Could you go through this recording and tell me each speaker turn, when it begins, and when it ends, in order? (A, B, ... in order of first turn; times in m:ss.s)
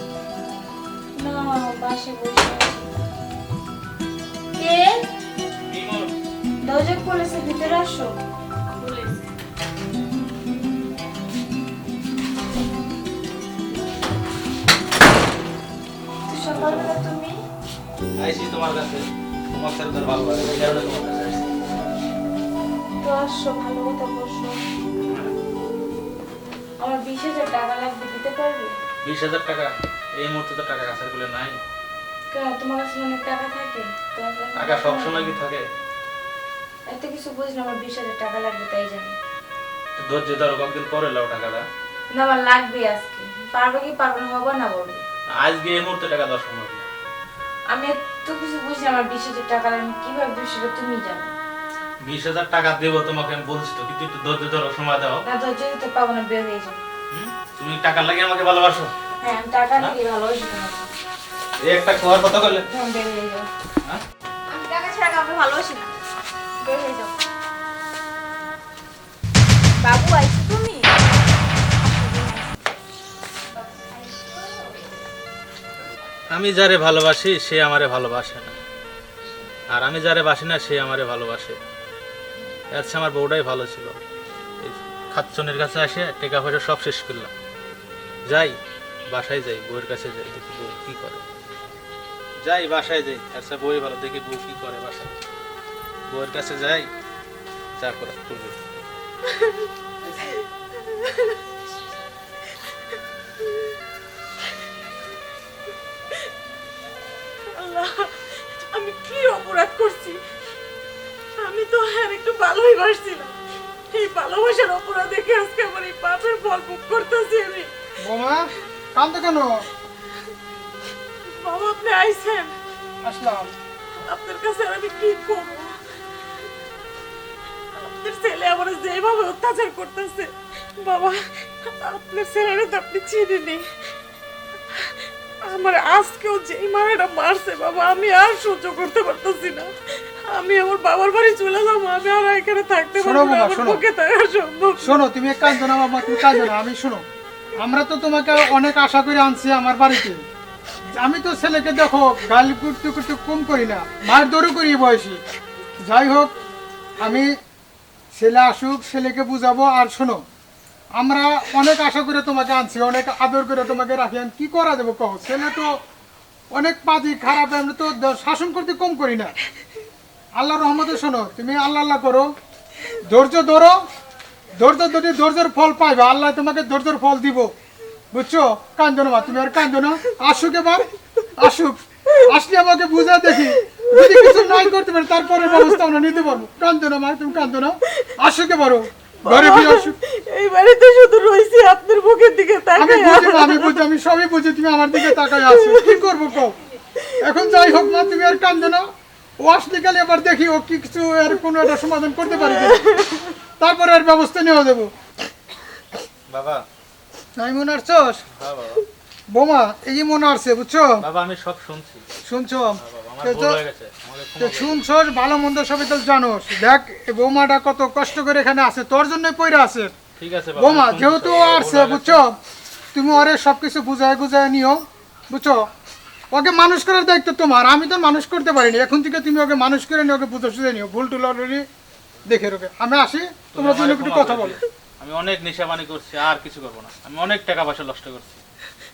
0:01.2-0:02.9 A
0:04.6-0:05.0 A
0:05.7-0:06.1 B
0:06.6-0:08.1 A
0:08.8-0:09.2 A
0:16.3-0:17.4 A
0:16.5-0:17.0 B
0:18.2-0:21.5 B
0:23.0-0:24.6 A
0:25.0-0:25.3 B
0:26.8-0:28.8 A
0:29.0-0:31.6 B
0:32.3-0:35.4 A
0:34.6-0:35.7 B
0:36.9-0:39.2 A
0:40.0-0:41.6 B
0:42.1-0:45.0 A
0:45.3-0:46.9 B
0:47.7-0:51.3 A
0:52.0-0:55.2 B
0:55.3-0:56.8 A
0:57.1-0:58.9 B
0:59.2-1:00.9 A
1:01.6-1:02.7 B
1:02.7-1:03.5 A
1:04.5-1:05.9 A
1:06.6-1:07.1 A
1:09.8-1:11.2 A
1:11.8-1:12.6 A
1:13.5-1:14.9 A
1:16.3-1:18.6 B
1:19.7-1:21.6 B
1:22.7-1:24.0 B
1:24.6-1:27.3 B
1:28.3-1:28.6 B
1:29.1-1:31.2 B
1:32.4-1:35.2 B
1:36.1-1:36.9 B
1:37.8-1:38.6 B
1:39.3-1:41.4 C
1:47.5-1:50.2 C
1:51.4-1:53.4 C
1:53.9-1:57.7 C
1:58.0-1:59.6 D
2:01.4-2:02.6 C
2:03.0-2:03.5 D
2:04.0-2:05.8 C
2:07.8-2:13.7 C
2:14.7-2:26.6 C
2:23.0-2:23.8 D
2:24.8-2:27.0 D
2:27.6-2:30.2 D
2:31.0-2:35.2 D
2:35.8-2:36.4 D
2:37.0-2:37.4 D
2:38.1-2:40.2 D
2:41.0-2:45.8 D
2:46.5-2:49.4 D
2:50.4-2:52.3 D
2:53.0-2:53.9 D
2:54.6-2:57.5 D
2:58.1-3:10.0 D
3:03.2-3:06.4 C
3:07.3-3:08.1 C
3:09.2-3:13.9 C
3:12.8-3:16.6 D
3:14.9-3:16.1 C
3:17.0-3:18.7 C
3:17.2-3:22.9 D
3:22.4-3:23.3 C
3:23.6-3:24.9 D
3:26.3-3:26.6 B
3:27.4-3:28.3 D
3:28.4-3:28.9 B
3:29.3-3:30.9 D
3:31.0-3:32.0 B
3:32.3-3:33.6 D
3:32.8-3:34.8 B
3:34.4-3:39.9 D
3:40.2-3:42.2 B
3:40.6-3:42.4 D
3:42.9-3:45.7 D
3:46.3-3:51.7 D
3:52.2-3:54.6 D
3:53.5-3:58.4 B